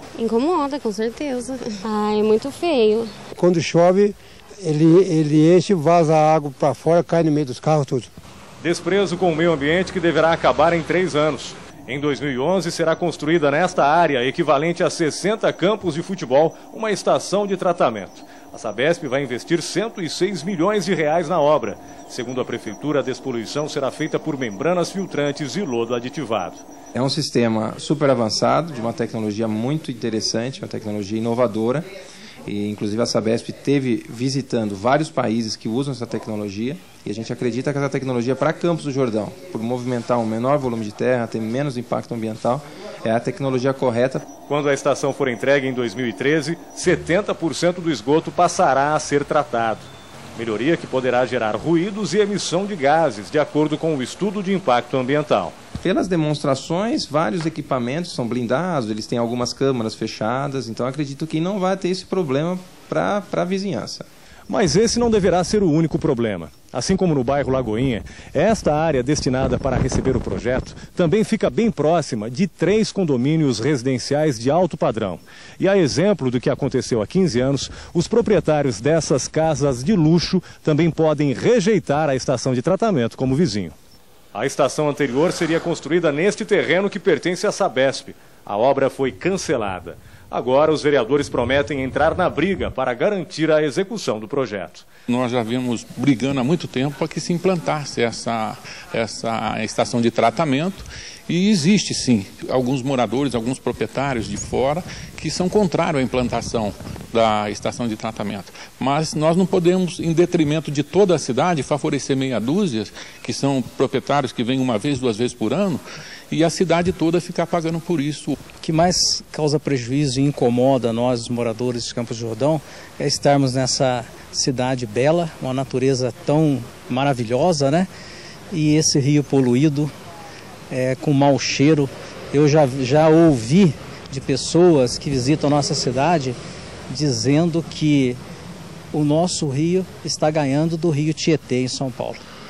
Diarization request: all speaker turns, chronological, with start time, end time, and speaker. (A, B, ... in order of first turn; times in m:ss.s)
0:00.2-0:03.2 A
0:03.4-0:04.2 B
0:05.1-0:08.0 B
0:08.6-0:26.6 C
0:27.0-0:31.9 D
0:32.5-0:44.2 D
0:44.5-0:55.5 C
0:55.8-1:04.1 D
1:04.5-1:23.8 C
1:24.3-1:34.9 C
1:35.1-1:58.4 E
1:58.6-2:07.9 F
2:08.5-2:09.9 F
2:10.7-2:16.4 F
2:16.9-2:18.2 F
2:18.9-2:22.2 F